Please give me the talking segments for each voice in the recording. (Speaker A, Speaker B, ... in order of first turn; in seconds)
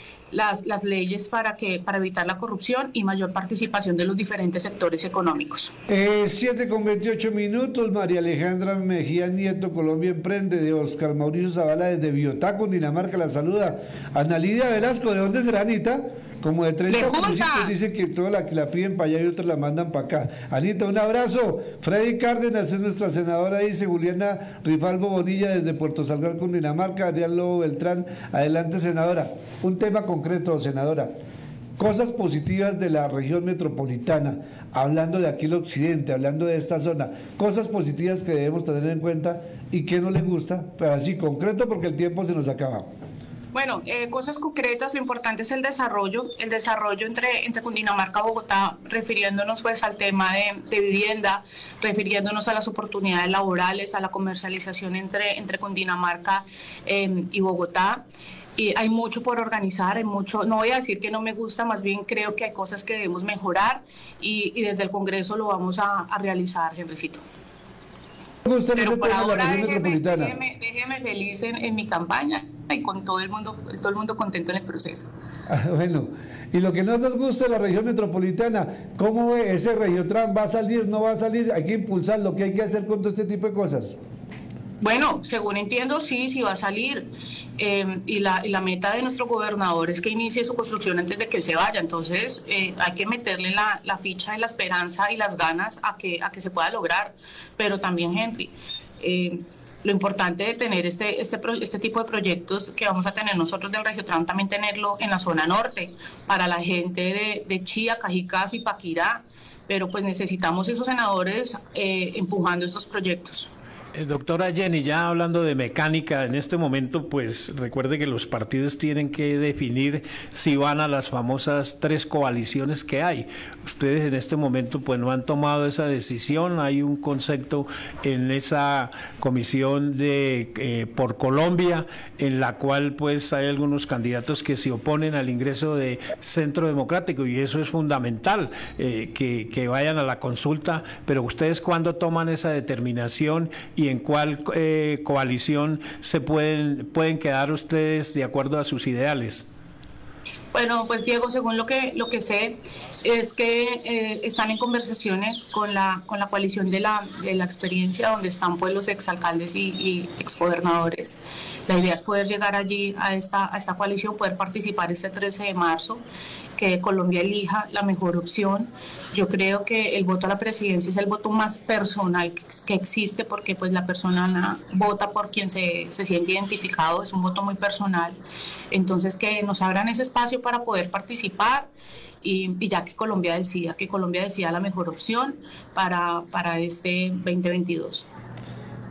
Speaker A: 0.3-5.7, 16.9-17.7, 43.5-58.0, 58.5-67.2, 68.8-75.1, 84.8-113.5, 150.5-166.0, 166.6-178.2, 178.7-181.7, 182.2-188.1
Speaker B: 5.9-31.1, 31.8-42.9, 68.4-70.3, 75.5-84.0
Speaker C: 113.9-149.4